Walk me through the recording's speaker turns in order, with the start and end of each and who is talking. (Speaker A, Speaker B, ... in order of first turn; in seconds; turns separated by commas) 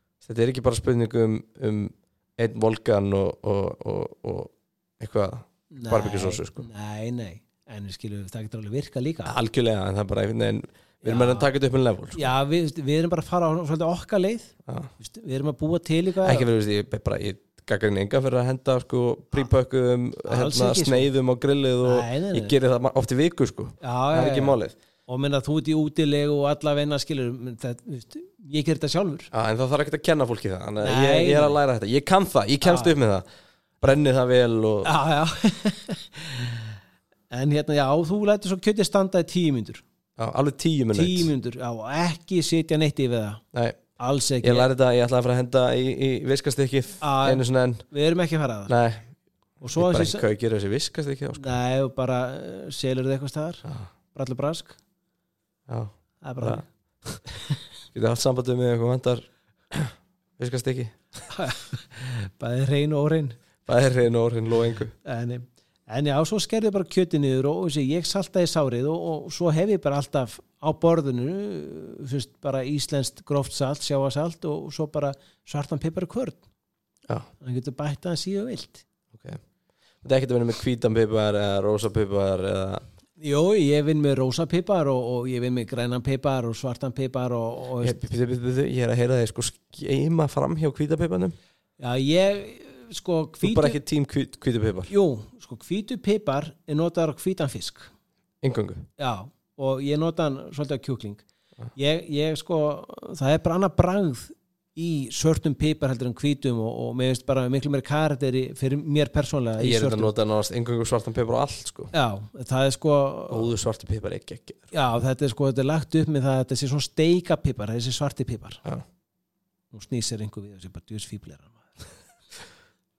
Speaker A: 0.2-6.7, Speaker B: 5.7-9.3, Speaker A: 9.3-12.3, Speaker B: 11.0-11.5, Speaker B: 12.2-16.5, Speaker A: 16.2-24.8, Speaker B: 20.3-21.1, Speaker B: 21.8-22.5, Speaker B: 23.8-29.3, Speaker A: 29.3-33.2, Speaker B: 30.8-31.6, Speaker B: 32.6-32.9, Speaker A: 33.8-34.9, Speaker B: 34.8-36.8, Speaker B: 37.3-39.8, Speaker A: 40.2-41.3, Speaker B: 40.9-43.4, Speaker A: 43.5-43.8, Speaker B: 44.0-44.7, Speaker A: 44.4-47.9, Speaker B: 47.0-48.7, Speaker A: 48.7-49.1, Speaker B: 49.6-50.3, Speaker A: 49.8-51.6, Speaker B: 51.4-54.8, Speaker A: 55.7-57.2, Speaker B: 56.2-56.7, Speaker A: 57.9-61.0, Speaker B: 61.3-63.4, Speaker A: 63.7-64.9, Speaker B: 65.0-76.4, Speaker B: 77.4-78.8, Speaker A: 79.1-79.4, Speaker A: 80.0-82.8, Speaker B: 83.2-88.0, Speaker A: 87.8-91.4, Speaker B: 91.8-93.8, Speaker A: 93.4-94.9, Speaker B: 94.9-97.9, Speaker A: 98.4-98.9, Speaker B: 99.0-101.2, Speaker B: 101.8-110.1, Speaker A: 109.6-111.9, Speaker B: 111.9-113.5, Speaker A: 113.3-114.7, Speaker B: 114.7-118.6, Speaker B: 119.7-121.9